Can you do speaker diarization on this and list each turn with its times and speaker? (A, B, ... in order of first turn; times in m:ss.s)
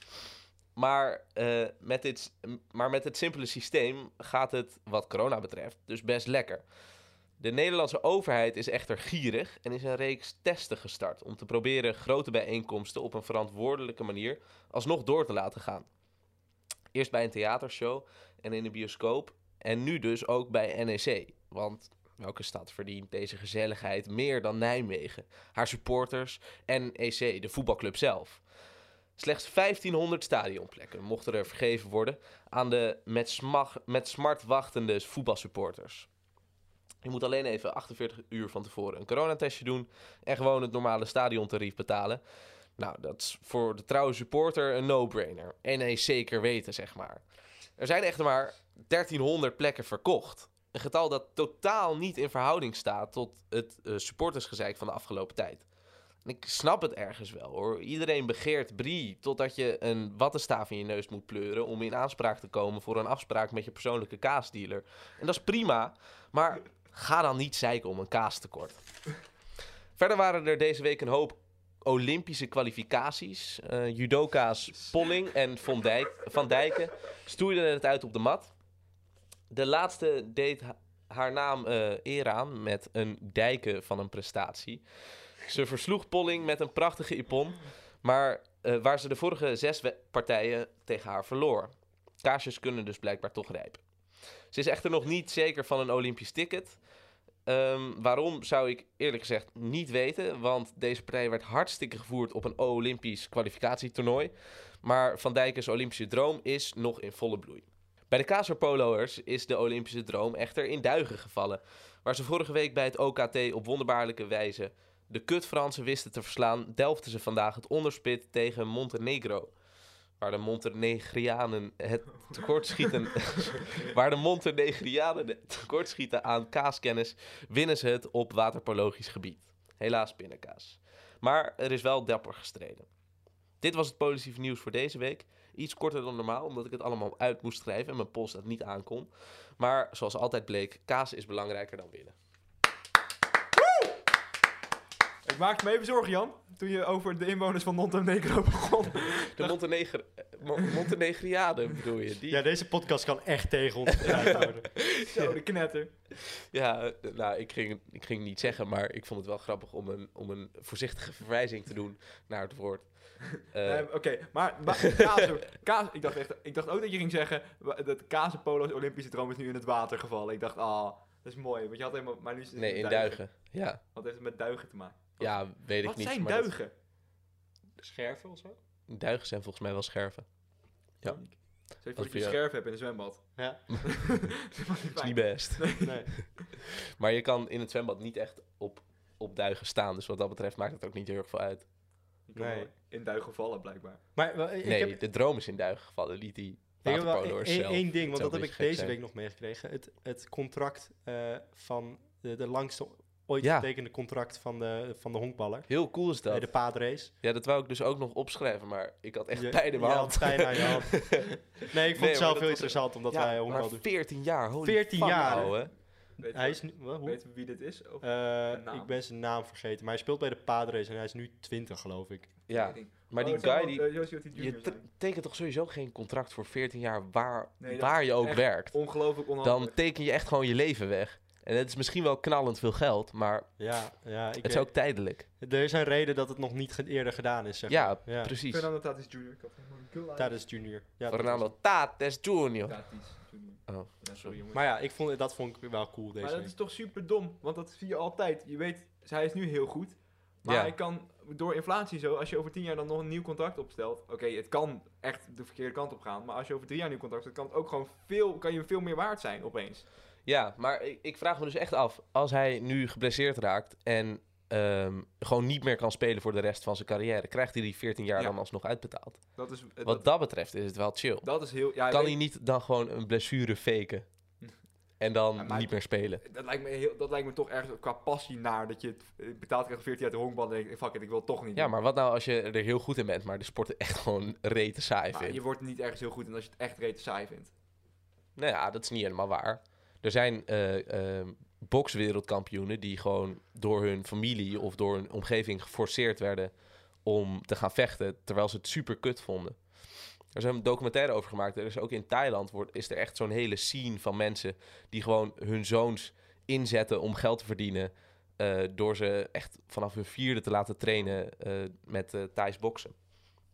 0:00.8-0:06.6 A
0:07.4-0:15.9 A
0:16.9-0:28.4 A
0:29.2-0:36.1 A
0:37.0-0:42.2 A
0:42.8-0:47.2 A
0:47.8-0:55.6 A
0:56.2-1:08.8 A
1:10.0-1:18.5 A
1:19.5-1:24.8 A
1:25.4-1:33.8 A
1:34.5-1:36.8 A
1:37.4-1:59.5 A
2:00.2-2:12.9 A
2:13.6-2:22.1 A
2:23.6-2:24.0 B
2:25.2-2:29.6 B
2:29.3-2:32.4 A
2:32.3-2:34.7 C
2:34.0-2:35.9 B
2:34.8-2:35.3 A
2:36.2-2:43.9 A
2:43.6-2:53.3 B
2:44.9-2:45.2 A
2:52.6-2:53.8 A
2:53.9-2:56.7 B
2:55.2-2:56.5 A
2:57.8-2:58.6 C
2:58.9-3:00.2 A
3:01.0-3:03.3 B
3:02.0-3:02.4 A
3:03.4-3:03.6 C
3:03.8-3:06.5 B
3:05.0-3:11.6 A
3:05.8-3:06.1 C
3:12.3-3:14.0 B
3:12.4-3:12.7 C
3:14.2-3:15.0 C
3:14.6-3:19.0 A
3:16.8-3:25.7 C
3:23.4-3:23.7 A
3:25.7-3:26.6 A
3:26.2-3:27.1 C
3:27.2-3:31.4 A
3:29.3-3:33.8 C
3:31.9-3:35.7 A
3:34.6-3:35.6 C
3:35.1-3:38.9 B
3:36.3-3:37.2 C
3:38.0-3:42.3 C
3:42.5-3:48.8 A
3:42.5-3:44.8 B
3:47.6-3:49.7 B
3:49.4-3:53.6 A
3:53.6-3:54.8 C
3:54.4-3:55.2 A
3:55.4-3:58.3 C
3:57.7-3:58.7 A
3:58.5-4:00.5 B
4:00.2-4:01.5 C
4:01.1-4:02.8 A
4:02.6-4:04.6 B
4:03.7-4:04.4 A
4:04.5-4:06.5 C
4:06.2-4:19.8 B
4:10.4-4:10.7 A
4:20.2-4:29.2 A
4:29.4-4:30.1 B
4:29.8-4:31.3 A
4:31.2-4:32.2 B
4:31.9-4:34.0 A
4:35.0-4:36.2 A
4:35.4-4:41.7 B
4:41.6-4:45.4 A
4:45.1-4:47.5 B
4:48.4-4:56.5 A
4:57.0-4:59.6 A
5:00.3-5:12.9 A